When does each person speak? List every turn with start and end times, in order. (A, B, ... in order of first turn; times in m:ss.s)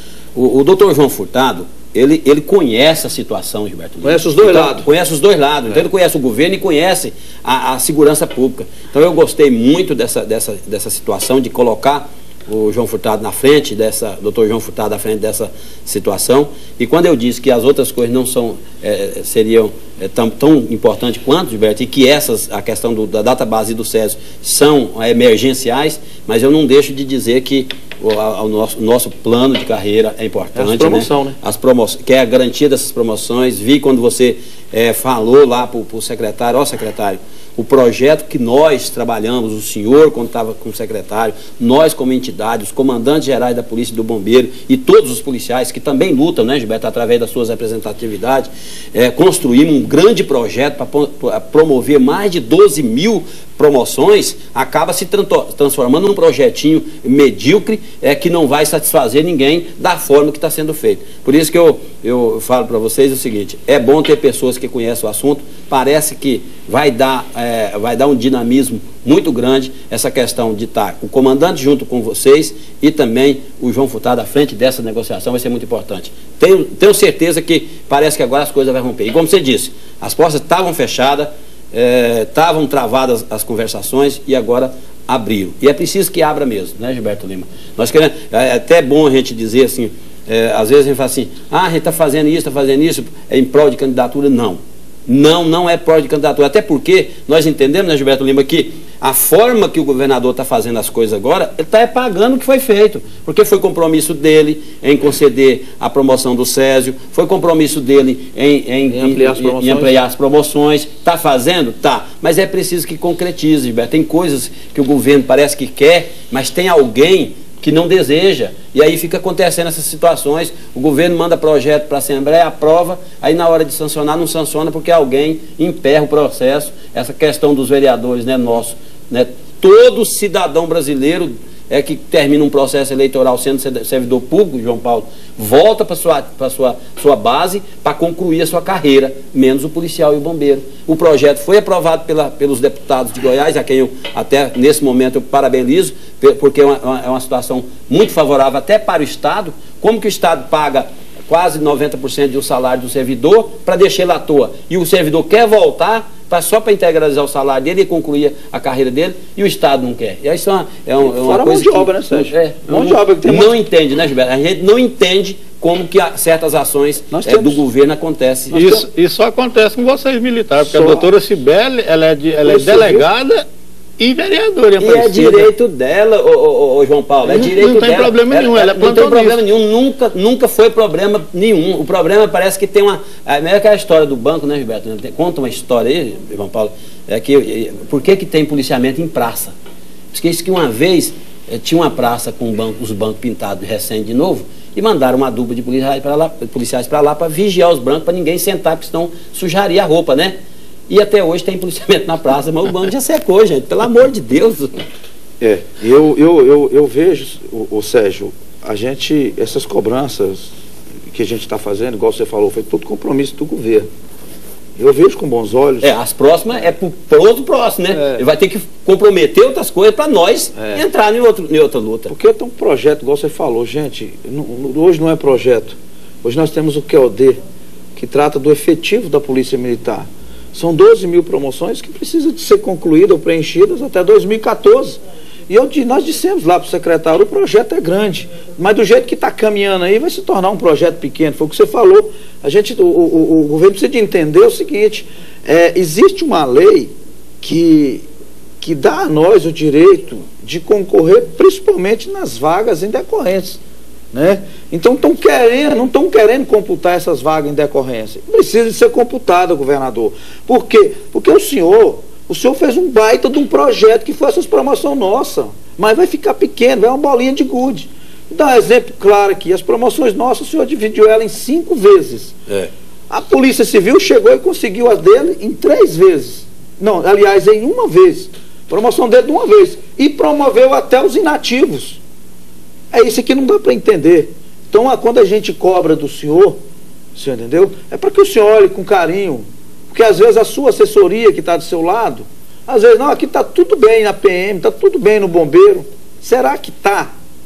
0:00.4-2:48.8 A
0:04.0-0:04.9 B
0:30.6-0:31.4 B
1:48.9-1:50.0 B
2:41.0-2:43.6 B
2:47.1-2:47.6 B
2:48.5-2:53.5 C
2:50.6-2:51.1 B
2:52.4-2:53.1 B
2:54.0-2:55.5 C
2:54.8-3:09.6 A
2:57.2-2:59.4 C
3:10.1-3:20.4 A
3:20.9-3:24.8 A
3:25.4-3:30.5 B
3:31.1-3:33.9 B
3:34.8-3:35.9 B
3:35.8-3:42.1 A
3:40.6-3:40.8 B
3:42.1-3:47.4 B
3:48.0-3:55.0 B
3:55.5-4:08.0 B
4:08.6-4:13.6 B
4:14.1-4:32.4 B
4:33.1-4:42.0 B
4:42.9-4:46.6 B
4:47.2-4:57.1 B